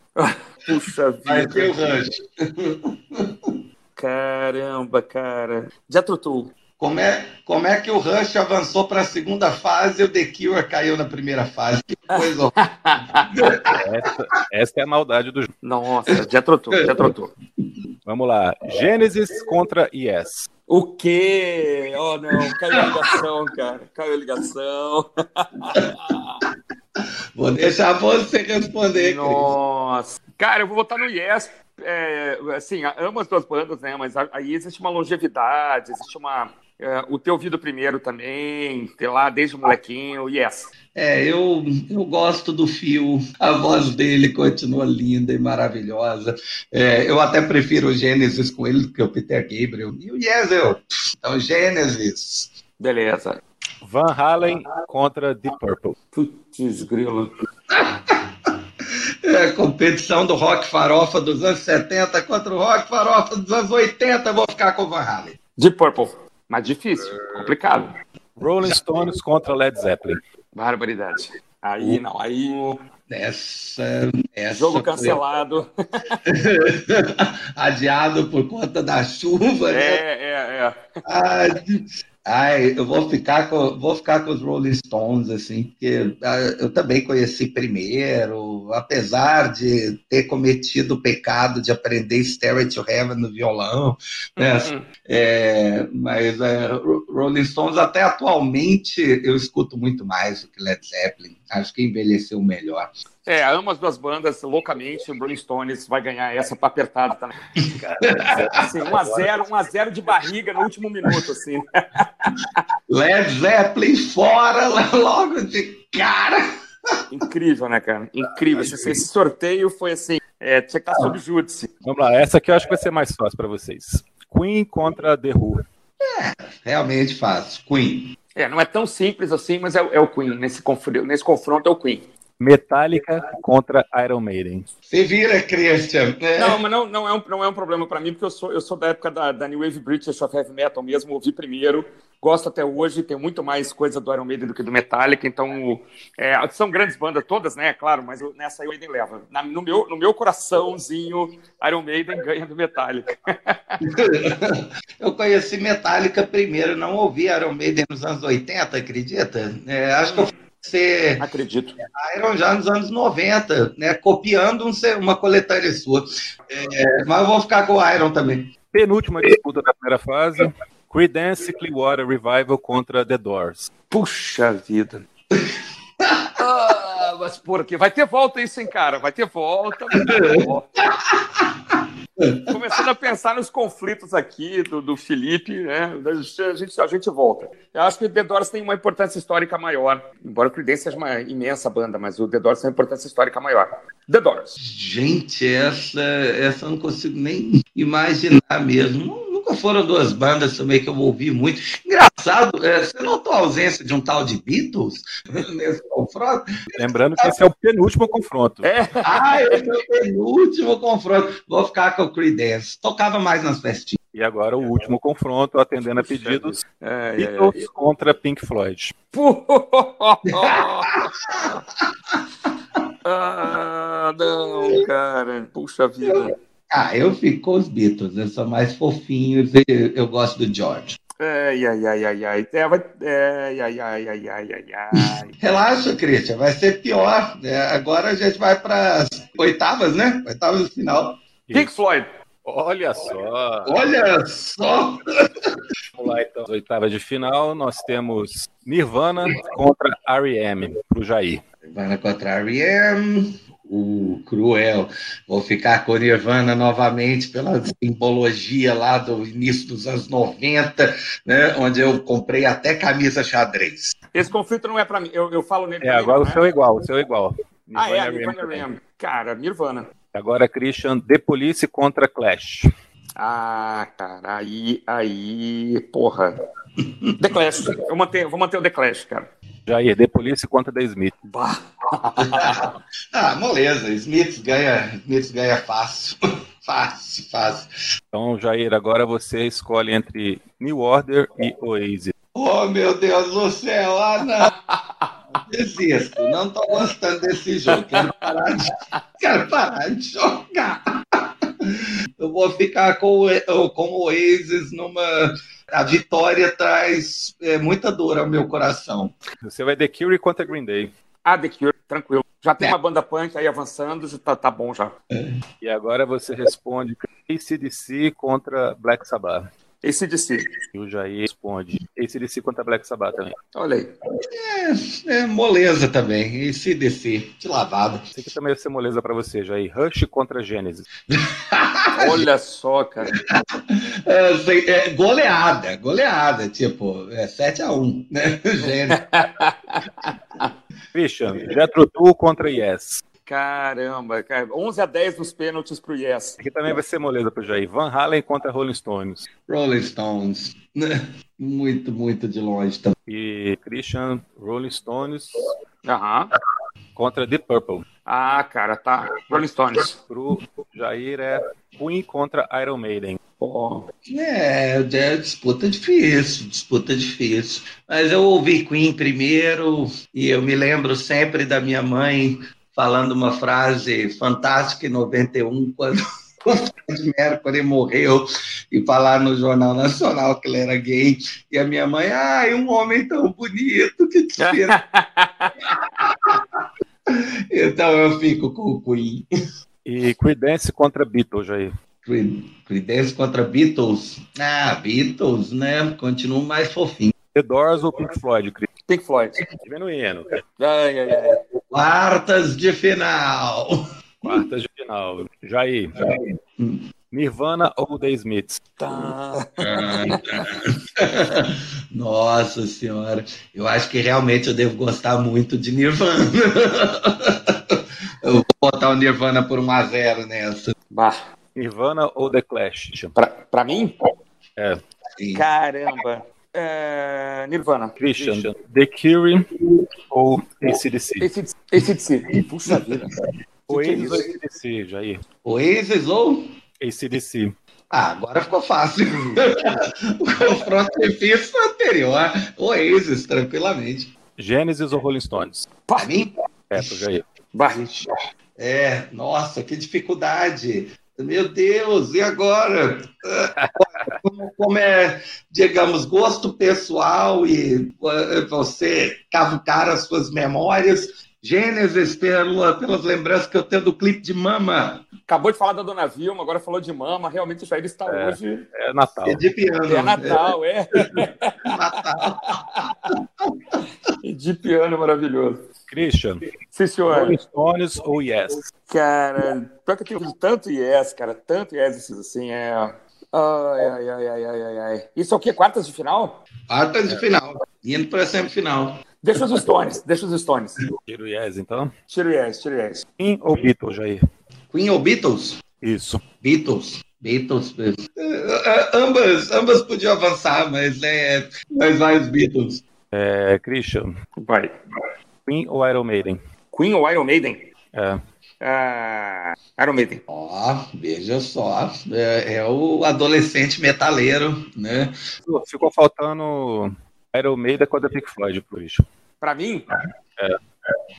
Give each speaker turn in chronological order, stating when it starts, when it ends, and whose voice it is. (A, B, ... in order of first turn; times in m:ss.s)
0:00.2-0:02.0 A
0:01.2-0:03.5 B
0:04.0-0:06.5 A
0:06.8-0:12.5 B
0:12.1-0:13.4 A
0:13.3-0:13.6 B
0:13.7-0:15.5 C
0:15.6-0:17.3 A
0:18.0-0:20.5 C
0:20.7-0:26.4 A
0:27.4-0:29.5 B
0:28.9-0:40.7 A
0:40.9-0:52.5 B
0:52.8-0:53.4 A
0:53.8-0:56.0 C
0:56.1-0:57.3 A
0:57.7-0:58.0 B
0:59.2-1:05.4 B
1:05.6-1:07.9 A
1:08.4-1:10.2 C
1:10.5-1:12.8 A
1:13.1-1:15.2 B
1:14.5-1:16.2 A
1:16.3-1:20.0 B
1:19.7-1:20.8 A
1:21.0-1:42.9 B
1:34.4-1:34.8 A
1:43.2-1:47.3 A
1:47.6-1:49.5 C
1:48.6-1:52.2 A
1:52.9-1:56.4 B
1:57.1-2:01.7 A
1:58.6-1:59.0 B
2:01.8-2:05.6 C
2:06.0-2:08.1 B
2:08.3-2:12.0 A
2:12.4-2:14.7 C
2:14.9-2:16.6 B
2:16.4-2:33.8 A
2:33.9-2:41.2 B
2:41.2-2:41.8 A
2:42.0-2:48.5 B
2:48.7-2:53.7 C
2:53.9-2:55.0 A
2:56.4-3:00.7 A
3:00.0-3:00.4 B
3:01.1-3:02.4 B
3:02.5-3:14.6 A
3:14.6-3:26.5 B
3:26.7-3:28.7 C
3:28.6-3:29.6 A
3:29.0-3:34.0 B
3:34.1-3:36.6 C
3:36.0-3:37.6 A
3:37.2-3:38.9 C
3:39.1-3:41.0 A
3:40.4-3:41.4 B
3:43.0-3:46.3 A
3:46.0-3:51.0 B
3:51.2-3:55.3 A
3:55.0-4:01.2 B
4:01.5-4:01.8 C
4:01.5-4:02.1 A
4:02.4-4:03.8 C
4:03.6-4:05.4 B
4:06.0-4:11.4 C
4:11.7-4:23.9 B
4:24.1-4:26.4 A
4:25.8-4:28.7 C
4:27.8-4:29.9 A
4:30.1-4:32.7 C
4:33.2-4:36.4 A
4:37.2-4:39.3 A
4:39.7-4:41.1 C
4:41.3-4:42.7 A
4:42.2-4:47.7 B
4:48.1-4:52.1 C
4:52.3-4:54.5 B
4:54.4-4:55.0 A
4:55.4-5:09.1 B
4:57.7-4:58.3 A
5:09.4-5:10.9 C
5:11.2-5:14.9 A
5:15.6-5:19.5 C
5:19.8-5:20.5 A
5:20.7-5:23.4 C
5:23.5-5:23.9 A
5:24.2-5:28.0 B
5:28.1-5:30.9 C
5:31.1-5:32.2 B
5:31.9-5:33.1 A
5:33.1-5:39.0 B
5:38.9-5:40.5 A
5:40.9-5:43.0 C
5:43.2-5:46.4 A
5:46.4-5:49.3 C
5:49.5-5:52.9 B
5:53.1-5:55.5 C
5:55.8-5:56.3 A
5:56.9-5:57.8 C
5:58.0-5:59.9 A
6:00.0-6:03.2 C
6:03.4-6:03.9 A
6:04.1-6:24.8 B
6:24.4-6:25.5 A
6:26.0-6:26.4 B
6:27.1-6:29.2 B
6:29.8-6:31.7 C
6:32.0-6:37.1 B
6:37.3-6:38.7 C
6:38.9-6:39.4 A
6:39.6-6:40.4 C
6:40.6-6:41.4 A
6:41.3-6:44.3 B
6:44.2-6:46.0 C
6:46.1-6:46.8 B
6:47.1-6:48.7 C
6:48.8-6:50.2 A
6:49.6-7:00.7 B
7:00.9-7:01.2 A
7:01.6-7:03.1 C
7:03.1-7:03.9 A
7:05.2-7:05.5 B
7:05.3-7:08.5 A
7:08.0-7:09.4 C
7:10.1-7:11.3 C
7:11.2-7:13.1 A
7:13.7-7:15.2 C
7:13.7-7:14.2 A
7:13.9-7:14.2 B
7:15.4-7:16.5 B
7:16.8-7:17.5 C
7:17.9-7:19.6 B
7:20.2-7:24.1 B
7:24.4-7:25.7 C
7:25.9-7:26.2 A
7:26.0-7:26.9 B
7:26.7-7:27.2 C
7:27.5-7:28.0 A
7:28.6-7:45.0 B
7:33.6-7:34.2 C
7:45.3-7:48.6 A
7:48.0-7:49.4 C
7:49.2-7:50.5 B
7:49.9-7:51.7 A
7:51.6-7:52.5 B
7:52.4-7:52.9 A
7:54.2-7:55.6 A
7:55.9-7:56.4 C
7:56.7-7:57.4 A
7:57.1-7:58.6 C
7:58.9-8:06.4 A
8:06.7-8:09.0 B
8:09.2-8:10.8 A
8:11.1-8:11.9 C
8:12.1-8:13.0 A
8:13.2-8:14.2 C
8:14.7-8:15.6 B
8:15.8-8:16.2 C
8:16.4-8:22.8 B
8:23.1-8:24.1 C
8:24.4-8:24.7 A
8:25.4-8:26.4 C
8:26.7-8:27.7 A
8:27.9-8:28.2 C
8:28.6-8:30.2 A
8:30.3-8:35.1 B
8:35.4-8:39.0 C
8:39.4-8:39.8 A
8:39.9-8:40.9 C